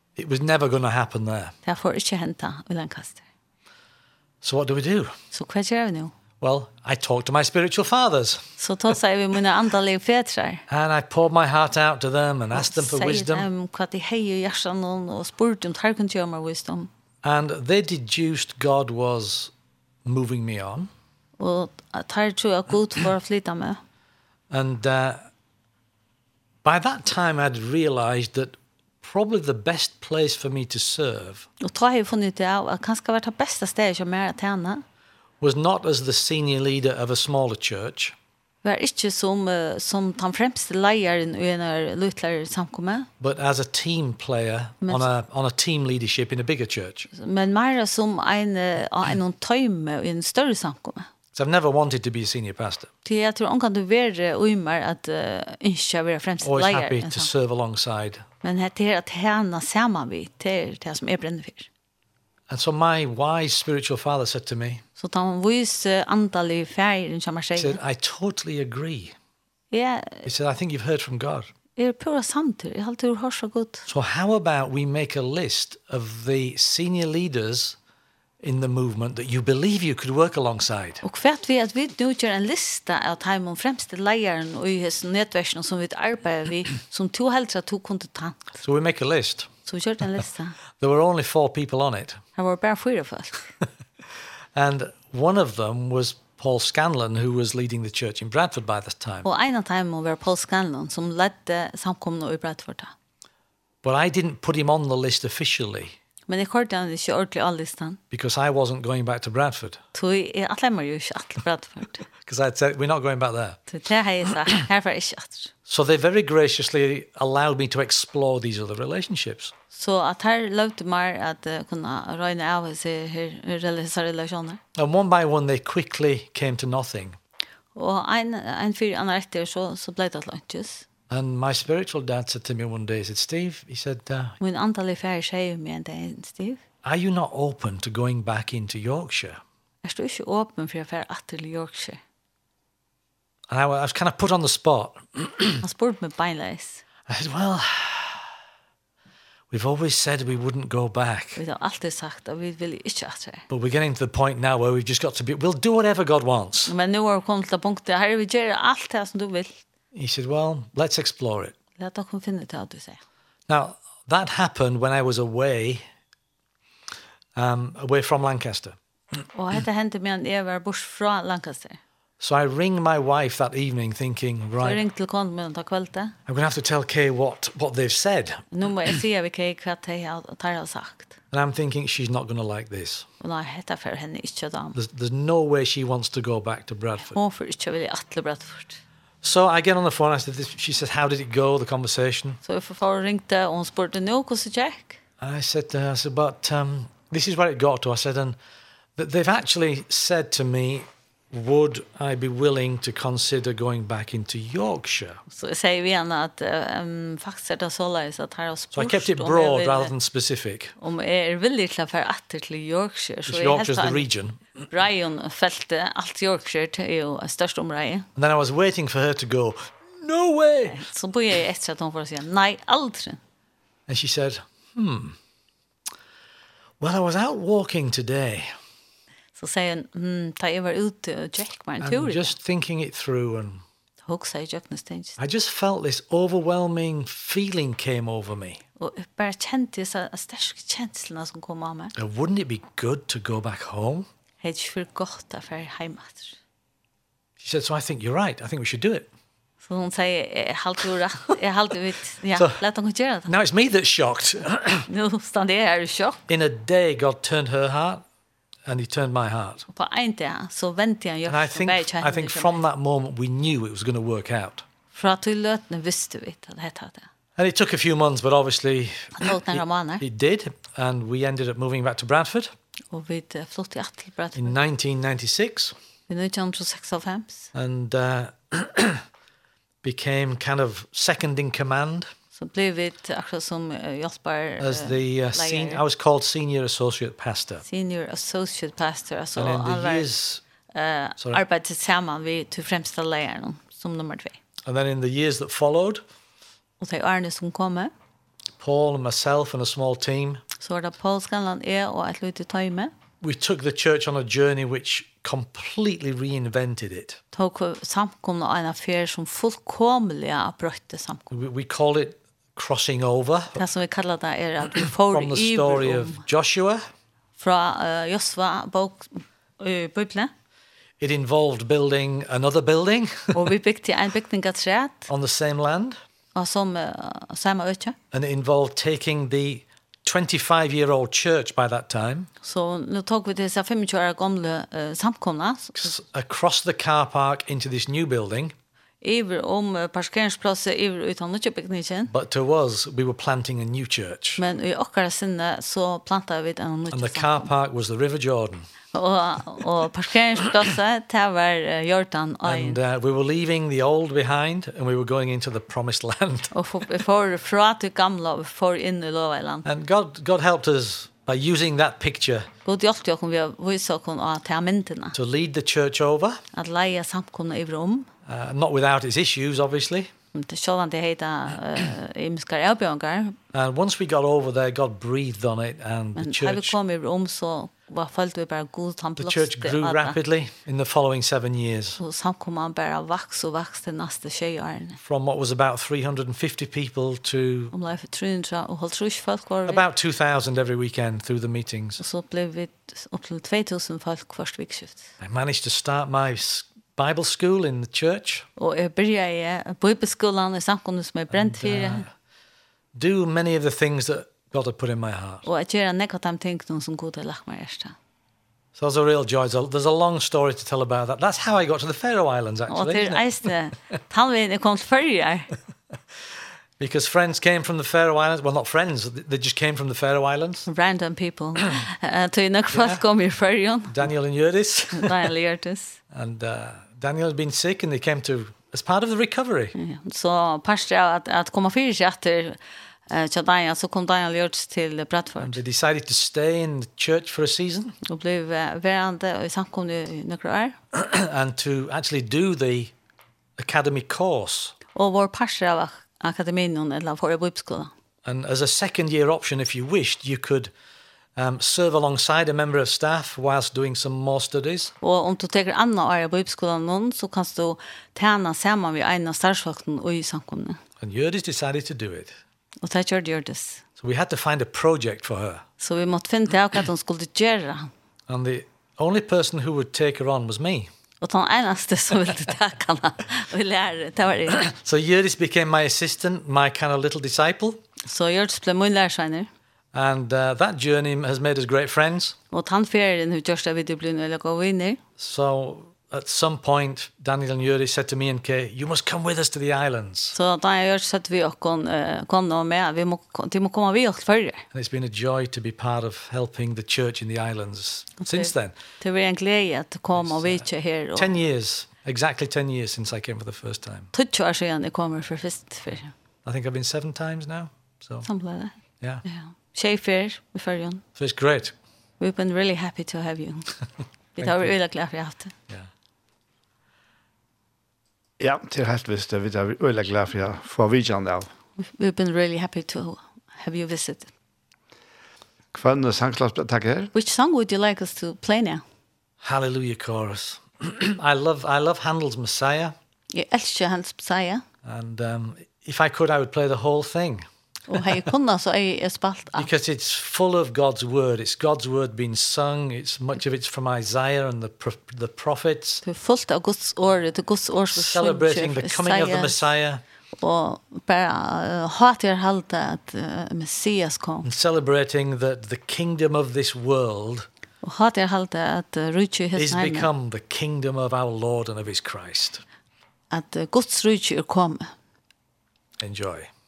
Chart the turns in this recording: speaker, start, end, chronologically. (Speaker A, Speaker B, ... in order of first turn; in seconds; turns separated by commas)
Speaker A: 0.2-1.6, Speaker B: 1.6-3.2, Speaker A: 4.4-5.1, Speaker B: 5.3-6.1, Speaker A: 6.4-8.5, Speaker B: 8.6-10.6, Speaker A: 10.7-13.5, Speaker B: 12.5-16.9, Speaker A: 17.2-19.5, Speaker A: 20.1-20.9, Speaker B: 21.4-23.8, Speaker A: 24.5-25.3, Speaker A: 26.6-31.5, Speaker B: 31.6-34.8, Speaker A: 35.4-38.1, Speaker B: 38.6-43.1, Speaker A: 43.2-47.1, Speaker B: 44.8-45.1, Speaker B: 47.1-51.1, Speaker A: 51.3-52.9, Speaker B: 53.0-57.3, Speaker A: 56.4-58.2, Speaker B: 58.4-61.7, Speaker A: 62.5-64.8, Speaker B: 65.0-67.8, Speaker A: 67.6-69.1, Speaker B: 69.7-70.2, Speaker A: 70.2-71.5, Speaker B: 71.8-73.8, Speaker A: 73.9-77.8, Speaker A: 78.4-81.0, Speaker B: 81.0-88.6, Speaker A: 88.6-89.5, Speaker B: 89.7-90.6, Speaker A: 90.8-92.2, Speaker B: 92.3-93.4, Speaker A: 94.5-99.2, Speaker B: 99.2-102.9, Speaker A: 103.8-105.9, Speaker B: 106.3-108.0, Speaker A: 108.1-109.8, Speaker B: 109.9-112.0, Speaker A: 112.2-113.6, Speaker B: 113.7-115.5, Speaker A: 115.7-119.5, Speaker B: 119.7-124.6, Speaker A: 124.8-127.2, Speaker B: 127.7-130.8, Speaker A: 131.1-134.4, Speaker B: 134.4-136.6, Speaker A: 136.8-139.4, Speaker B: 139.8-142.0, Speaker A: 143.5-145.6, Speaker B: 145.6-146.8, Speaker A: 147.1-148.2, Speaker A: 149.5-151.4, Speaker B: 151.3-153.4, Speaker A: 153.5-156.7, Speaker B: 156.7-159.6, Speaker A: 159.9-161.5, Speaker B: 161.8-163.0, Speaker A: 163.5-165.8, Speaker A: 167.3-168.8, Speaker B: 169.3-171.8, Speaker A: 172.2-174.8, Speaker B: 174.6-176.1, Speaker A: 176.3-178.4, Speaker B: 178.5-181.2, Speaker A: 181.3-183.1, Speaker B: 183.2-184.8, Speaker A: 184.7-187.2, Speaker B: 187.0-188.8, Speaker A: 189.2-192.4, Speaker B: 192.4-195.0, Speaker A: 195.2-198.3, Speaker A: 199.0-205.2, Speaker B: 205.3-209.9, Speaker A: 208.7-210.7, Speaker B: 210.8-214.1, Speaker A: 213.3-214.4, Speaker B: 214.7-218.1, Speaker A: 218.2-220.8, Speaker B: 220.7-223.2, Speaker A: 223.9-225.2, Speaker A: 226.8-228.5, Speaker B: 229.3-232.3, Speaker A: 231.8-233.6, Speaker B: 234.0-235.1, Speaker A: 235.2-238.6, Speaker B: 238.8-241.9, Speaker A: 241.9-244.1, Speaker B: 244.4-246.4, Speaker A: 247.4-249.1, Speaker B: 249.6-253.3, Speaker A: 253.3-254.9, Speaker B: 254.9-256.2, Speaker A: 256.3-258.0, Speaker A: 258.6-259.7, Speaker B: 259.7-262.6, Speaker A: 261.3-264.6, Speaker B: 264.9-267.1, Speaker A: 267.4-272.5, Speaker B: 269.2-270.0, Speaker B: 272.9-274.6, Speaker A: 274.4-275.7, Speaker B: 276.1-277.5, Speaker A: 277.5-279.0, Speaker A: 279.8-282.1, Speaker B: 282.3-285.8, Speaker A: 284.6-287.6, Speaker B: 287.6-290.1, Speaker A: 289.4-290.4, Speaker B: 290.7-294.4, Speaker A: 294.6-296.0, Speaker B: 296.8-297.9, Speaker A: 298.6-300.4, Speaker B: 300.6-302.9, Speaker A: 303.2-307.2, Speaker B: 307.3-311.3, Speaker A: 311.3-313.6, Speaker B: 313.6-316.2, Speaker A: 315.1-316.8, Speaker B: 317.4-320.3, Speaker A: 321.0-323.5, Speaker B: 323.3-325.1, Speaker A: 325.1-326.0, Speaker B: 326.3-328.0, Speaker A: 328.1-332.3, Speaker B: 332.4-335.9, Speaker A: 335.8-338.5, Speaker B: 339.0-342.1, Speaker A: 342.1-344.4, Speaker B: 344.4-347.5, Speaker A: 346.9-348.7, Speaker B: 348.9-352.8, Speaker A: 352.4-356.5, Speaker B: 356.5-359.6, Speaker A: 359.6-362.5, Speaker B: 362.6-365.1, Speaker A: 365.1-366.4, Speaker B: 366.5-368.1, Speaker A: 368.3-370.1, Speaker B: 370.3-373.4, Speaker A: 373.5-376.7, Speaker B: 376.1-380.2, Speaker A: 379.2-382.0, Speaker B: 382.0-385.0, Speaker A: 385.0-387.7, Speaker B: 387.7-389.8, Speaker A: 389.6-392.0, Speaker B: 392.0-395.1, Speaker A: 395.2-398.5, Speaker B: 398.6-402.1, Speaker A: 401.3-402.1, Speaker A: 402.9-405.4, Speaker B: 405.4-407.9, Speaker A: 408.8-413.5, Speaker B: 412.7-415.5, Speaker A: 416.8-420.7, Speaker B: 420.6-424.1, Speaker A: 422.7-423.0, Speaker A: 423.9-425.3, Speaker B: 424.9-426.0, Speaker A: 426.1-429.7, Speaker B: 429.7-432.6, Speaker B: 433.1-435.6, Speaker A: 435.4-437.9, Speaker B: 438.0-440.8, Speaker A: 440.9-442.9, Speaker A: 443.6-444.7, Speaker B: 444.9-447.9, Speaker A: 448.2-450.7, Speaker A: 451.4-454.9, Speaker B: 455.0-460.8, Speaker A: 461.0-462.4, Speaker B: 462.8-463.8, Speaker A: 464.0-465.6, Speaker B: 465.8-467.9, Speaker A: 468.3-470.9, Speaker B: 471.2-474.7, Speaker A: 474.6-477.8, Speaker B: 478.0-479.5, Speaker A: 479.9-482.4, Speaker B: 482.5-485.0, Speaker A: 485.2-490.4, Speaker B: 490.3-494.6, Speaker A: 494.7-498.7, Speaker B: 498.2-501.3, Speaker A: 500.2-504.1, Speaker B: 504.1-506.1, Speaker A: 506.4-508.3, Speaker B: 508.2-508.7, Speaker B: 509.2-511.0, Speaker A: 511.1-511.7, Speaker B: 512.2-513.7, Speaker B: 514.4-515.5, Speaker A: 514.4-514.7, Speaker C: 518.4-521.5, Speaker B: 521.8-524.3, Speaker C: 525.7-527.1, Speaker B: 527.1-528.8, Speaker A: 529.4-532.9, Speaker B: 533.3-534.6, Speaker A: 534.8-537.5, Speaker B: 537.9-539.7, Speaker A: 539.6-546.0, Speaker B: 546.0-549.5, Speaker A: 547.9-550.0, Speaker B: 550.4-554.5, Speaker A: 554.4-557.5, Speaker B: 557.8-560.1, Speaker A: 559.5-562.6, Speaker B: 563.3-564.9, Speaker A: 566.0-566.5